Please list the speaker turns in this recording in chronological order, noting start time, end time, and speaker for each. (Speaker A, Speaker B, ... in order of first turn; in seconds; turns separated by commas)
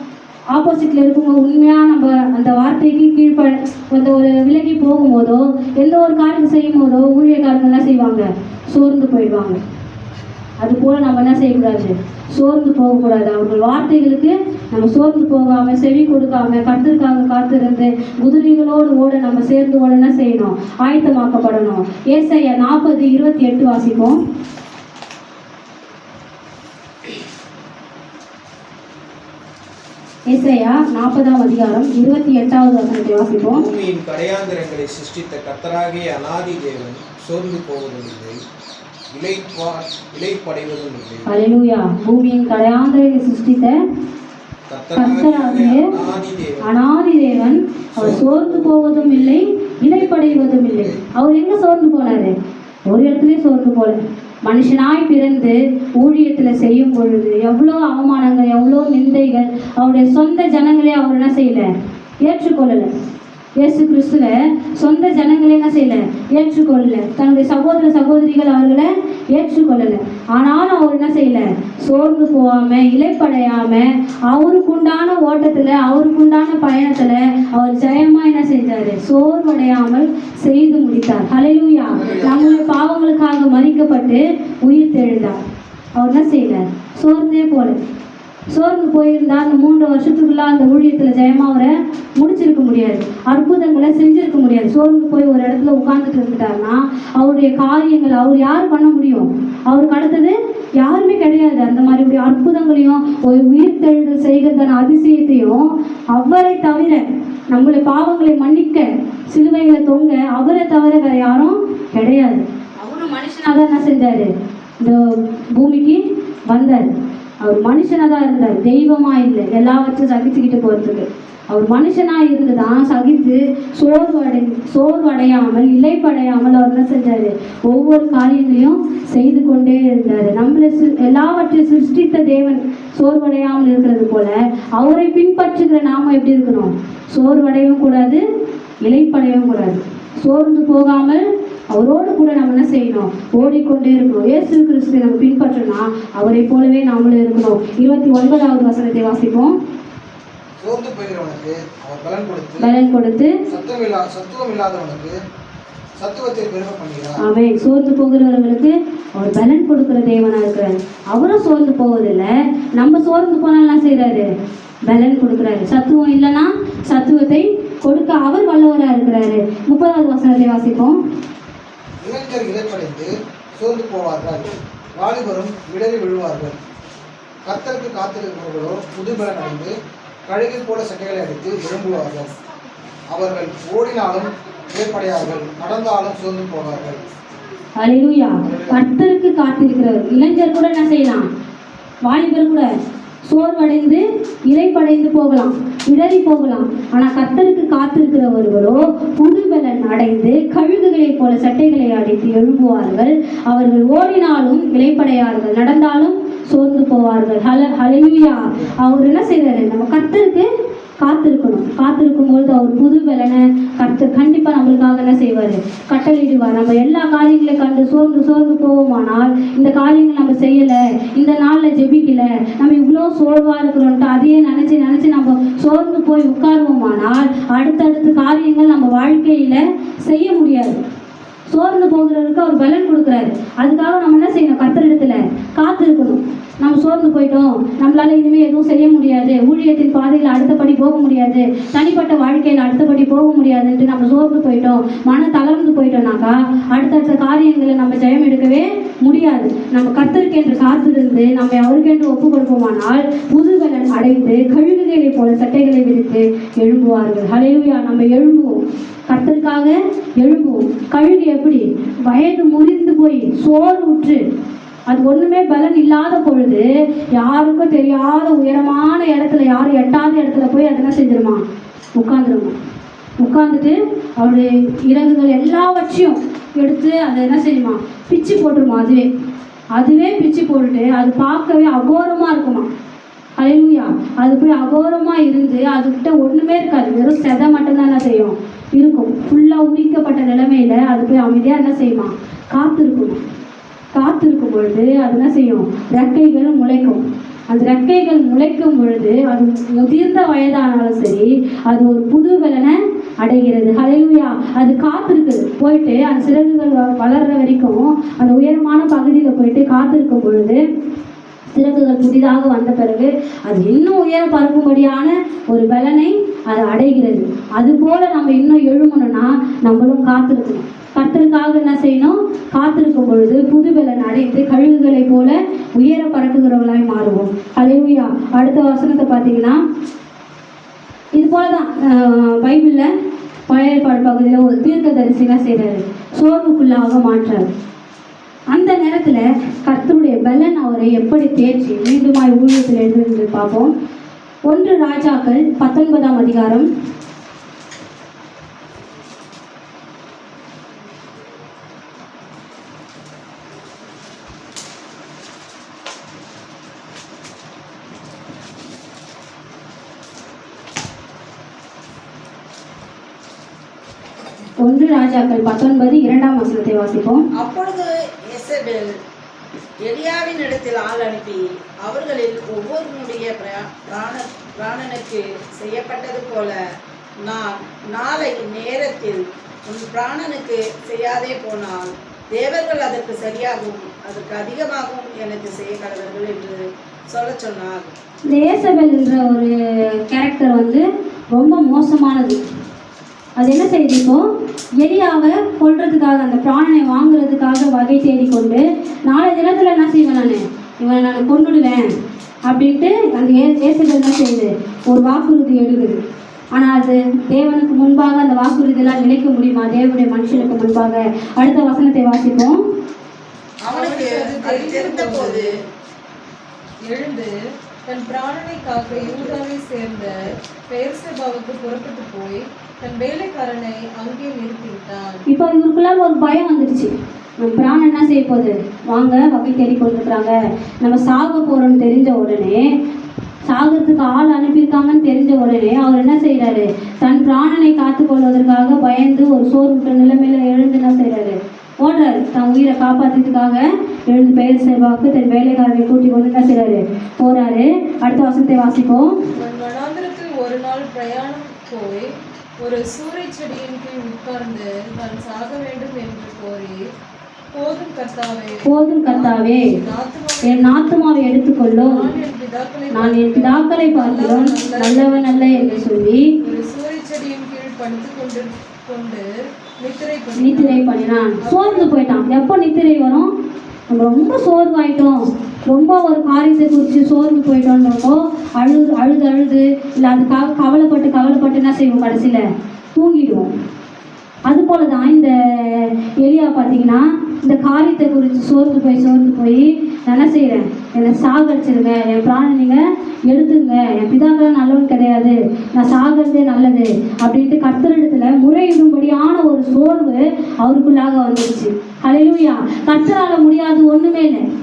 Speaker A: 0.5-9.6, Speaker A: 10.6-24.2, Speaker A: 30.3-33.7, Speaker B: 33.4-38.4, Speaker B: 39.1-41.3, Speaker A: 41.3-43.8, Speaker B: 44.7-46.7, Speaker A: 45.0-45.9, Speaker A: 46.6-52.3, Speaker B: 48.0-51.0, Speaker A: 52.9-61.7, Speaker A: 62.2-62.9, Speaker A: 63.6-85.4, Speaker C: 82.0-82.6, Speaker A: 86.0-87.8, Speaker A: 88.5-116.9, Speaker A: 117.4-138.2, Speaker A: 138.8-149.6, Speaker D: 150.6-152.7, Speaker A: 152.6-153.3, Speaker D: 153.5-155.2, Speaker D: 156.0-157.2, Speaker A: 157.2-164.3, Speaker A: 164.9-171.0, Speaker D: 172.0-176.6, Speaker D: 177.4-179.7, Speaker D: 180.3-182.3, Speaker D: 183.1-187.0, Speaker A: 187.8-191.3, Speaker D: 188.4-188.8, Speaker A: 192.1-192.7, Speaker A: 193.3-210.5, Speaker A: 211.0-230.8, Speaker A: 231.5-264.2, Speaker A: 264.9-271.4, Speaker A: 272.0-272.5, Speaker A: 273.2-279.1, Speaker A: 279.7-282.7, Speaker A: 283.4-293.2, Speaker A: 293.9-310.6, Speaker A: 311.5-329.6, Speaker A: 331.1-332.9, Speaker A: 333.5-337.5, Speaker A: 338.5-343.7, Speaker A: 344.4-346.7, Speaker A: 364.6-367.2, Speaker C: 367.4-368.9, Speaker C: 369.9-376.6, Speaker C: 377.2-387.9, Speaker A: 388.3-392.4, Speaker A: 393.4-394.3, Speaker A: 394.8-401.9, Speaker A: 402.5-406.0, Speaker A: 406.5-412.6, Speaker C: 413.7-415.5, Speaker E: 413.7-415.5, Speaker E: 416.9-417.3, Speaker E: 417.9-425.2, Speaker A: 425.3-432.7, Speaker A: 433.5-449.1, Speaker E: 449.4-452.1, Speaker E: 452.6-456.8, Speaker E: 457.5-460.8, Speaker A: 458.6-459.7, Speaker A: 460.4-462.1, Speaker E: 461.7-469.3, Speaker A: 462.9-466.3, Speaker E: 469.8-470.9, Speaker A: 470.4-473.3, Speaker E: 471.4-472.0, Speaker A: 473.9-483.5, Speaker A: 484.5-504.4